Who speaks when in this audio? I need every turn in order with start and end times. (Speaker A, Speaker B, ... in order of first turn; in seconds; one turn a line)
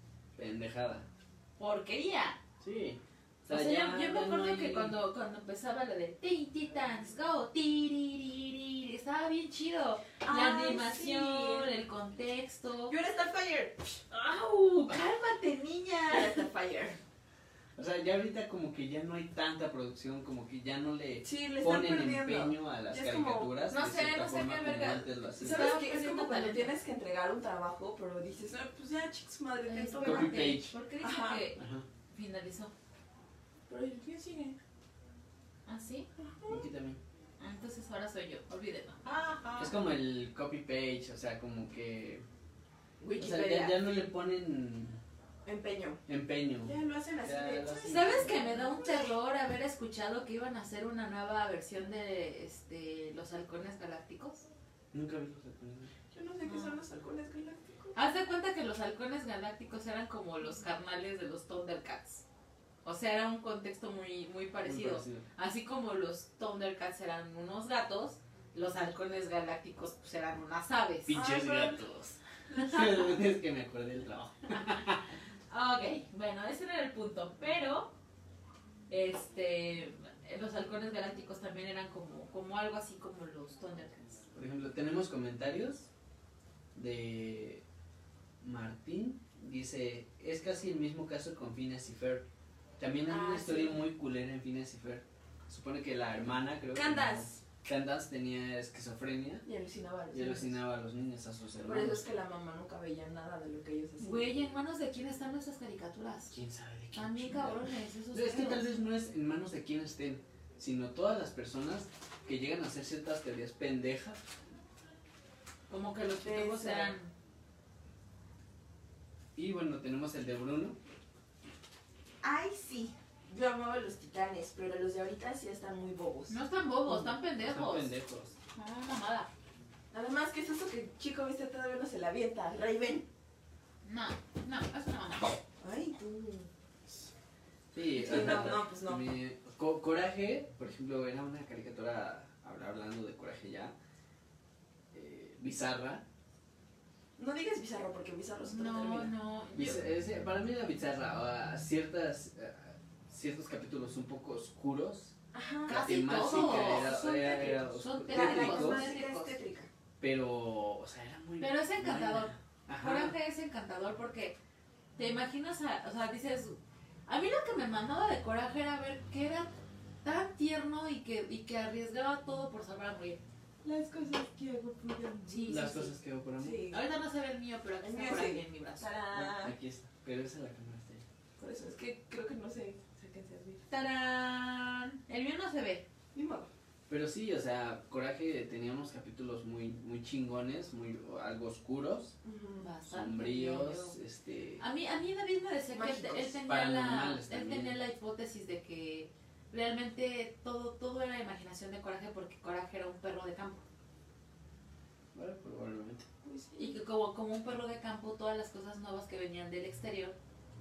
Speaker A: 0.3-1.1
Speaker B: 1.6-2.4
Speaker A: 2.6-5.0
Speaker B: 3.5-12.9
Speaker C: 10.2-11.7
Speaker C: 12.9-14.0
Speaker B: 14.1-16.4
Speaker C: 16.1-17.0
Speaker A: 17.8-25.7
Speaker C: 21.2-23.5
Speaker B: 23.7-26.7
Speaker C: 25.4-31.5
Speaker B: 29.7-32.7
Speaker A: 30.0-30.7
Speaker A: 31.6-31.9
Speaker C: 33.7-34.6
Speaker B: 35.6-36.1
Speaker C: 36.2-36.7
Speaker A: 36.5-37.0
Speaker B: 37.4-39.1
Speaker C: 39.0-39.7
Speaker A: 39.6-42.2
Speaker C: 43.0-44.0
Speaker A: 43.1-45.0
Speaker C: 45.4-46.0
Speaker A: 46.1-48.3
Speaker C: 46.6-48.9
Speaker B: 47.9-54.5
Speaker A: 54.9-55.9
Speaker C: 56.1-57.9
Speaker B: 56.5-56.8
Speaker B: 57.9-62.2
Speaker B: 62.8-71.2
Speaker A: 64.6-65.2
Speaker A: 71.1-75.1
Speaker C: 71.1-71.8
Speaker B: 72.5-73.1
Speaker B: 74.5-74.8
Speaker B: 75.5-77.9
Speaker B: 78.9-84.2
Speaker A: 84.3-85.9
Speaker A: 86.7-87.6
Speaker A: 88.4-92.2
Speaker A: 92.8-99.4
Speaker C: 93.1-93.8
Speaker C: 96.7-97.4
Speaker C: 99.4-100.6
Speaker A: 100.1-102.0
Speaker C: 101.6-104.3
Speaker B: 104.0-106.4
Speaker A: 106.3-114.2
Speaker B: 106.9-108.6
Speaker B: 115.7-117.1
Speaker C: 116.2-116.9
Speaker A: 119.3-120.8
Speaker C: 122.2-126.4
Speaker B: 126.3-127.9
Speaker A: 126.9-128.4
Speaker B: 128.5-129.3
Speaker C: 129.9-133.1
Speaker B: 133.8-135.4
Speaker C: 135.6-136.5
Speaker A: 137.7-143.7
Speaker C: 138.0-139.0
Speaker B: 138.1-138.5
Speaker A: 144.9-146.0
Speaker C: 147.2-149.1
Speaker B: 148.4-149.9
Speaker A: 149.5-155.1
Speaker C: 155.3-156.9
Speaker A: 155.7-158.8
Speaker B: 155.7-159.3
Speaker C: 158.1-159.7
Speaker A: 160.0-163.1
Speaker B: 161.4-164.4
Speaker B: 164.9-169.5
Speaker B: 170.0-173.2
Speaker C: 173.6-175.8
Speaker B: 175.3-175.9
Speaker A: 175.5-176.6
Speaker C: 176.4-176.8
Speaker B: 176.7-178.9
Speaker C: 177.8-179.5
Speaker A: 179.1-181.0
Speaker C: 181.4-183.6
Speaker B: 183.7-185.8
Speaker C: 186.1-186.5
Speaker A: 186.9-192.1
Speaker C: 192.2-192.7
Speaker B: 192.6-194.0
Speaker A: 192.9-194.6
Speaker B: 194.6-203.6
Speaker C: 195.7-196.4
Speaker A: 196.4-197.8
Speaker A: 205.1-206.1
Speaker C: 206.2-206.8
Speaker B: 206.5-210.2